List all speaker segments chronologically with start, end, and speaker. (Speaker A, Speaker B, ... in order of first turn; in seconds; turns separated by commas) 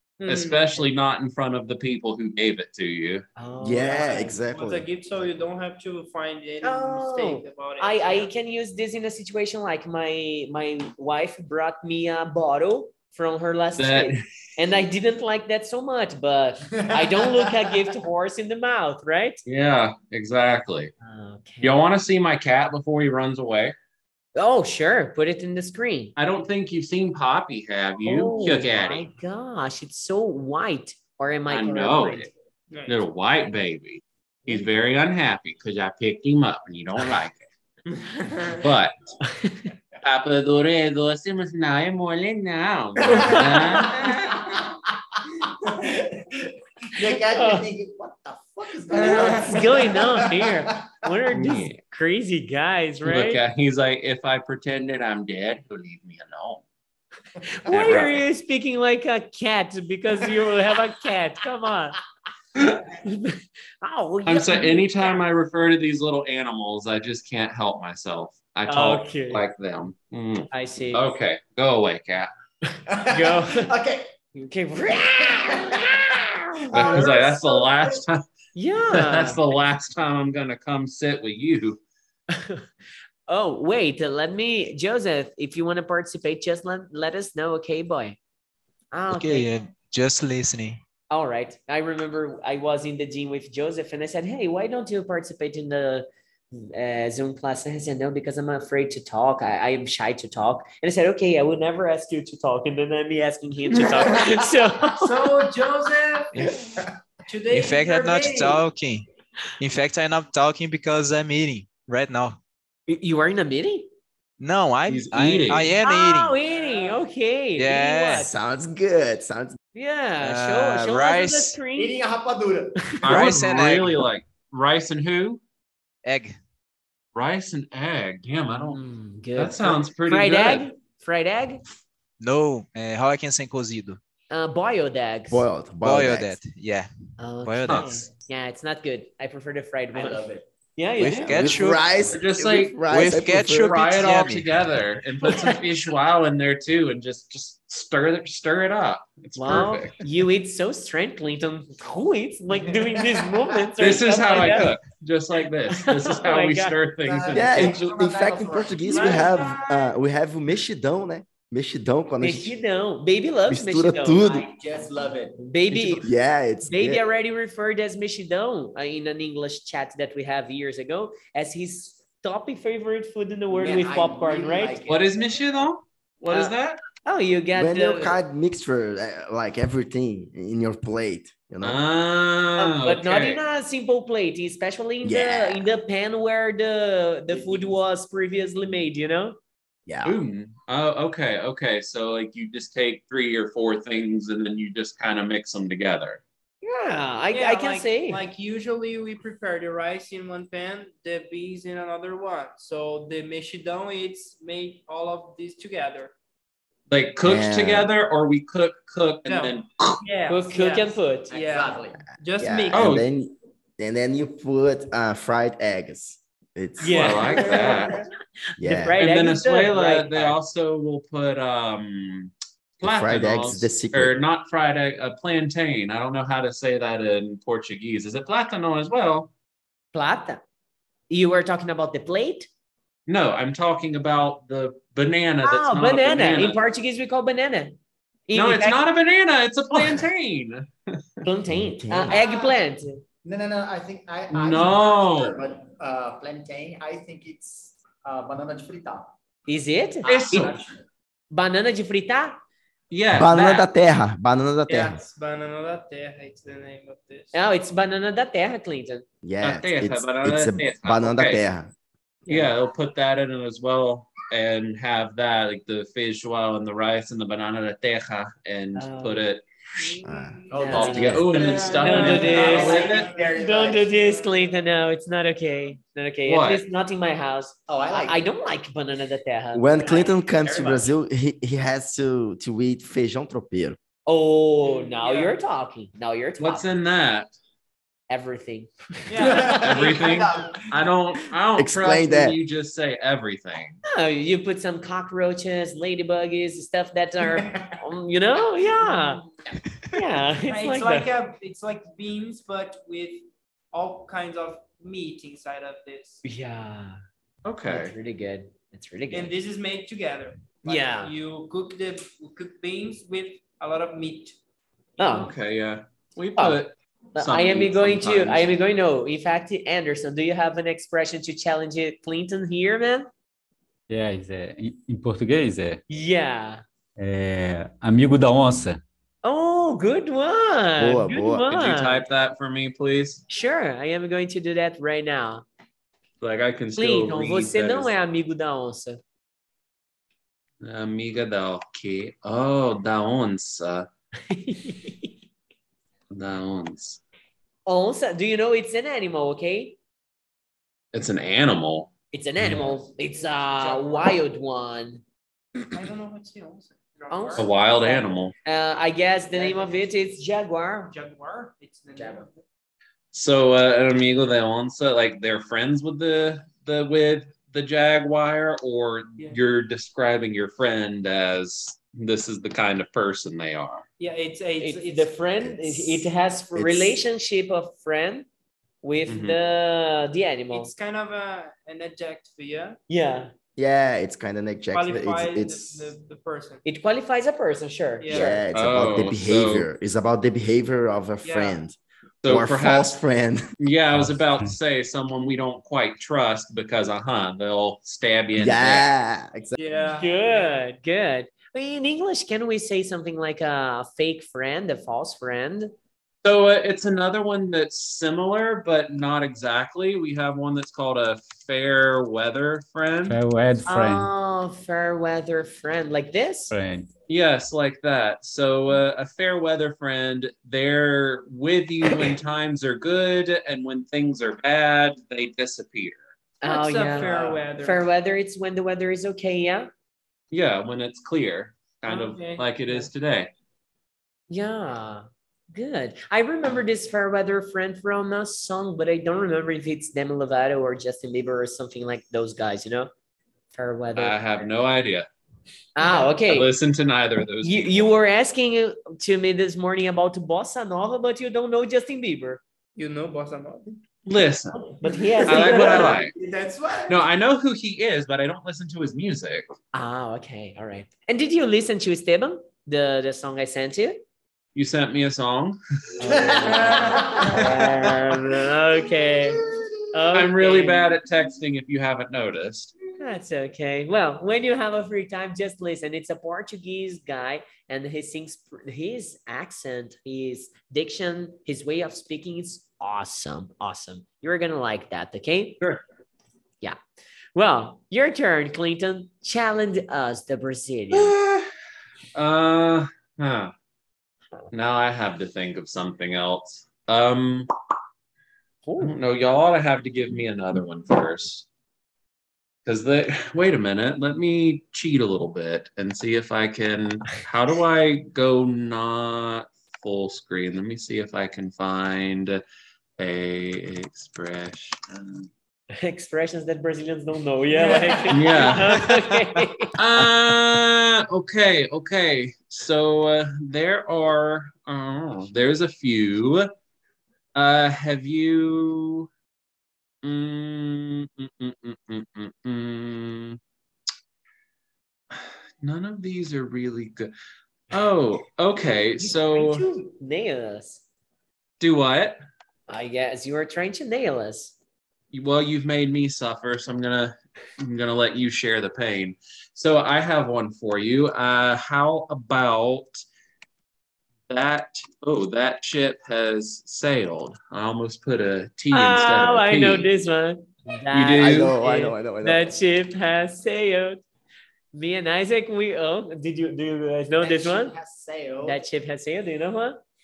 Speaker A: 0.2-3.2, Speaker B: 0.3-0.8, Speaker C: 3.4-4.4, Speaker D: 3.6-4.9, Speaker B: 3.9-8.3, Speaker C: 6.6-19.4, Speaker A: 13.8-14.2, Speaker E: 16.9-17.6, Speaker A: 19.4-20.9, Speaker C: 21.0-21.8, Speaker A: 21.6-23.8, Speaker C: 24.4-26.1, Speaker A: 26.2-29.1, Speaker C: 28.1-32.3, Speaker A: 31.5-32.3, Speaker B: 32.7-33.0, Speaker A: 32.9-37.4, Speaker A: 38.5-39.2, Speaker C: 39.2-39.7, Speaker A: 40.0-44.5, Speaker C: 43.1-44.1, Speaker E: 43.2-44.7, Speaker E: 45.6-50.9, Speaker C: 47.3-47.7, Speaker C: 49.0-53.4, Speaker A: 51.3-51.8, Speaker A: 53.0-56.6, Speaker C: 57.5-62.0, Speaker A: 57.7-58.2, Speaker C: 62.9-65.2, Speaker A: 64.3-72.3, Speaker C: 68.7-69.5, Speaker C: 70.5-71.1, Speaker C: 72.7-73.7, Speaker E: 72.9-74.1, Speaker C: 74.3-77.3, Speaker E: 74.9-76.1, Speaker E: 76.7-77.9, Speaker A: 76.7-78.2, Speaker C: 78.5-79.4, Speaker A: 78.9-81.8, Speaker C: 82.3-82.7, Speaker C: 83.3-88.2, Speaker C: 88.9-89.5, Speaker F: 89.1-90.8, Speaker C: 91.1-105.3, Speaker B: 104.9-106.4, Speaker F: 106.3-106.8, Speaker B: 107.2-108.7, Speaker F: 107.5-109.1, Speaker F: 109.6-112.4, Speaker C: 112.9-113.9, Speaker F: 114.4-116.4, Speaker A: 114.9-115.8, Speaker C: 115.8-118.3, Speaker B: 116.5-117.0, Speaker F: 117.6-118.3, Speaker D: 118.2-119.6, Speaker C: 119.8-122.0, Speaker F: 120.2-121.6, Speaker E: 121.8-123.0, Speaker A: 123.0-125.4, Speaker F: 123.1-124.0, Speaker F: 126.0-126.4, Speaker A: 127.2-128.8, Speaker C: 128.7-131.6, Speaker A: 129.4-130.7, Speaker F: 132.2-134.0, Speaker C: 134.3-135.5, Speaker D: 135.3-136.4, Speaker F: 135.8-136.9, Speaker C: 137.2-140.2, Speaker F: 137.4-138.0, Speaker E: 139.9-140.5, Speaker C: 140.8-141.6, Speaker F: 141.0-141.9, Speaker D: 141.2-143.8, Speaker A: 142.1-149.9, Speaker F: 142.9-144.6, Speaker C: 149.4-154.8, Speaker E: 152.9-153.7, Speaker A: 153.8-157.8, Speaker C: 155.8-156.8, Speaker E: 157.1-159.6, Speaker D: 157.3-162.6, Speaker B: 158.8-159.7, Speaker C: 162.2-164.4, Speaker D: 163.5-164.5, Speaker E: 164.2-165.4, Speaker C: 165.4-166.1, Speaker D: 165.7-167.0, Speaker C: 166.7-174.8, Speaker E: 173.5-175.2, Speaker A: 174.9-176.8, Speaker C: 176.3-178.2, Speaker D: 177.6-181.8, Speaker A: 181.6-183.4, Speaker C: 182.6-189.4, Speaker D: 185.0-185.7, Speaker E: 187.3-187.8, Speaker D: 189.9-190.2, Speaker A: 190.0-196.2, Speaker C: 196.6-198.2, Speaker B: 197.3-206.1, Speaker A: 206.9-210.0, Speaker D: 207.2-207.9, Speaker B: 209.2-213.0, Speaker C: 210.3-211.3, Speaker E: 211.3-212.1, Speaker D: 212.4-217.5, Speaker A: 212.7-213.1, Speaker C: 216.8-217.9, Speaker A: 216.9-218.0, Speaker B: 217.3-218.0, Speaker D: 218.6-219.0, Speaker C: 218.6-220.4, Speaker A: 219.0-229.3, Speaker D: 222.8-224.2, Speaker C: 229.9-230.4, Speaker C: 231.1-232.5, Speaker A: 233.1-236.6, Speaker C: 235.4-237.8, Speaker C: 238.3-238.8, Speaker A: 238.3-240.9, Speaker C: 241.2-243.0, Speaker D: 241.7-242.2, Speaker E: 242.1-242.6, Speaker E: 243.2-249.1, Speaker A: 244.3-245.4, Speaker C: 249.5-250.5, Speaker E: 250.0-250.8, Speaker A: 250.1-250.6, Speaker C: 251.3-252.4, Speaker A: 252.9-253.7, Speaker D: 253.1-255.0, Speaker B: 254.7-257.4, Speaker C: 257.3-259.1, Speaker D: 259.2-261.7, Speaker A: 259.4-261.4, Speaker C: 262.3-262.5, Speaker A: 262.3-269.4, Speaker C: 268.8-269.3, Speaker B: 269.8-273.4, Speaker D: 270.0-271.4, Speaker E: 270.5-274.0, Speaker C: 270.5-280.1, Speaker A: 270.7-273.1, Speaker B: 274.0-274.3, Speaker A: 276.3-276.6, Speaker E: 277.7-278.2, Speaker D: 279.5-283.8, Speaker B: 280.4-280.8, Speaker C: 284.1-286.7, Speaker B: 284.6-285.4, Speaker A: 286.4-287.3, Speaker C: 288.1-290.0, Speaker B: 289.1-290.3, Speaker A: 289.2-293.8, Speaker E: 289.3-290.7, Speaker D: 291.6-292.4, Speaker C: 293.9-299.2, Speaker E: 297.3-297.7, Speaker B: 298.8-299.3, Speaker C: 299.9-301.1, Speaker B: 300.5-306.2, Speaker C: 306.2-307.0, Speaker A: 307.4-307.9, Speaker C: 307.6-309.3, Speaker B: 309.1-314.4, Speaker C: 310.7-311.1, Speaker C: 315.0-315.3, Speaker B: 315.0-315.3, Speaker A: 315.1-318.5, Speaker C: 317.1-323.1, Speaker G: 323.9-325.8, Speaker C: 325.9-326.6, Speaker G: 327.0-328.8, Speaker C: 329.2-332.1, Speaker D: 330.8-331.5, Speaker A: 331.5-333.2, Speaker C: 333.3-335.4, Speaker A: 336.2-337.9, Speaker C: 336.8-339.0, Speaker A: 340.6-343.9, Speaker C: 344.3-345.1, Speaker A: 346.1-347.0, Speaker C: 347.7-349.8, Speaker A: 350.9-351.9, Speaker C: 352.1-355.0, Speaker B: 352.5-354.2, Speaker B: 355.7-357.6, Speaker C: 357.1-360.9, Speaker A: 357.4-358.3, Speaker B: 359.3-359.9, Speaker B: 360.9-362.4, Speaker A: 363.1-373.9, Speaker B: 374.0-375.2, Speaker C: 374.6-378.3, Speaker D: 375.4-376.0, Speaker D: 376.5-377.0, Speaker C: 378.8-380.7, Speaker A: 379.1-379.4, Speaker B: 380.5-382.8, Speaker C: 382.9-383.3, Speaker D: 383.6-385.9, Speaker B: 384.7-386.6, Speaker C: 386.6-388.4, Speaker B: 388.0-388.4, Speaker D: 388.1-393.5, Speaker A: 388.5-389.7, Speaker B: 391.2-391.6, Speaker A: 392.2-393.0, Speaker A: 393.6-398.9, Speaker G: 394.0-394.5, Speaker D: 398.4-399.6, Speaker B: 399.6-400.6, Speaker C: 399.9-405.7, Speaker A: 406.2-413.2, Speaker G: 413.1-414.1, Speaker C: 413.7-416.5, Speaker G: 416.5-416.9, Speaker A: 417.1-426.0, Speaker C: 426.4-429.7, Speaker B: 426.4-427.8, Speaker A: 430.3-433.3, Speaker B: 431.9-432.9, Speaker C: 434.3-442.9, Speaker C: 443.5-444.2, Speaker A: 444.0-445.1, Speaker C: 445.8-446.5, Speaker A: 446.2-447.9, Speaker C: 447.4-452.4, Speaker B: 452.8-453.8, Speaker A: 454.1-454.7, Speaker C: 454.8-456.0, Speaker B: 454.9-457.0, Speaker A: 455.2-456.1, Speaker A: 456.9-459.5, Speaker C: 459.7-464.0, Speaker A: 464.6-467.1, Speaker C: 466.0-471.0, Speaker E: 466.0-467.4, Speaker B: 466.4-467.4, Speaker A: 470.1-472.7, Speaker C: 473.0-485.6, Speaker C: 487.4-491.1, Speaker A: 490.9-491.5, Speaker A: 492.1-493.5, Speaker A: 494.5-497.5, Speaker C: 498.6-498.9, Speaker A: 498.8-501.5, Speaker A: 502.6-512.4, Speaker A: 513.0-515.3, Speaker C: 515.7-519.7, Speaker B: 517.6-518.2, Speaker A: 518.1-518.9, Speaker A: 519.8-526.5, Speaker A: 527.4-529.1, Speaker A: 530.0-533.4, Speaker A: 535.1-537.1, Speaker A: 537.7-539.6, Speaker C: 539.0-540.8, Speaker A: 541.6-542.2, Speaker C: 542.7-544.5, Speaker A: 545.1-553.0, Speaker A: 554.3-559.9, Speaker C: 558.7-564.0, Speaker A: 560.9-561.5, Speaker D: 561.2-562.5, Speaker C: 564.7-567.8, Speaker E: 567.2-568.6, Speaker C: 568.4-569.8